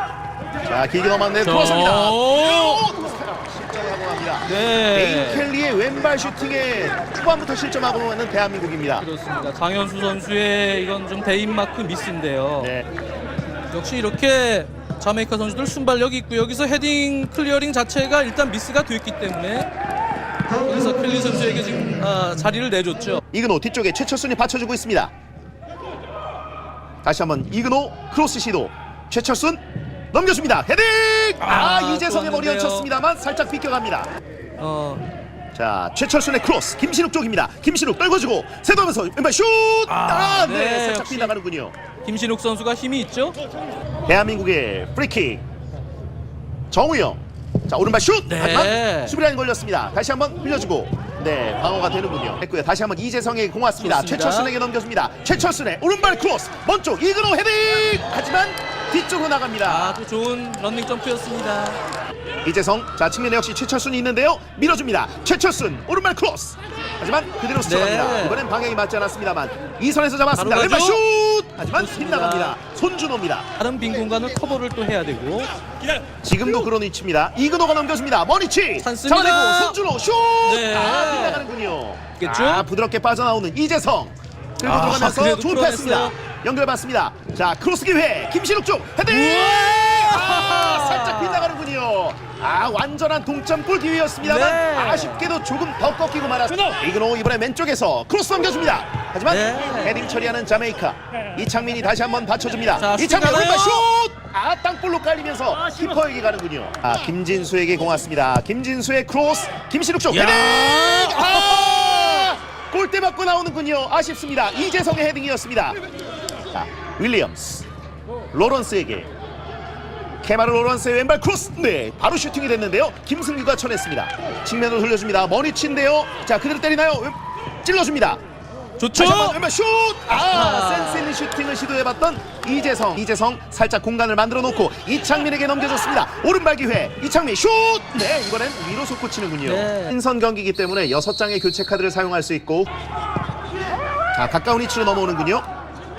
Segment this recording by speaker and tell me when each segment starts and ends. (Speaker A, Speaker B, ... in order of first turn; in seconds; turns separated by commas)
Speaker A: 0.7-9.1, Speaker B: 1.4-2.8, Speaker B: 4.5-5.5, Speaker B: 9.0-12.7, Speaker A: 12.6-12.9, Speaker B: 13.7-19.7, Speaker B: 20.6-23.2, Speaker A: 23.3-25.1, Speaker A: 27.0-34.1, Speaker B: 31.4-32.9, Speaker B: 34.6-35.0, Speaker A: 35.5-41.7, Speaker B: 39.9-41.3, Speaker B: 42.0-43.4, Speaker A: 44.1-45.4, Speaker A: 46.7-60.0, Speaker B: 48.3-49.2, Speaker B: 53.8-54.5, Speaker B: 59.7-61.8, Speaker A: 62.5-73.5, Speaker B: 67.6-68.4, Speaker B: 70.4-71.0, Speaker B: 71.7-72.6, Speaker B: 73.6-75.5, Speaker A: 76.2-115.8, Speaker B: 78.8-79.8, Speaker B: 80.4-81.5, Speaker B: 82.2-82.7, Speaker B: 84.6-86.2, Speaker B: 89.1-91.5, Speaker B: 94.2-95.3, Speaker B: 99.3-100.0, Speaker B: 102.8-103.9, Speaker B: 110.1-112.0, Speaker A: 116.5-117.7, Speaker A: 118.3-119.1, Speaker A: 120.2-128.2, Speaker B: 128.8-129.4, Speaker A: 128.9-142.7, Speaker B: 130.1-131.1, Speaker B: 139.4-139.9, Speaker A: 144.1-145.5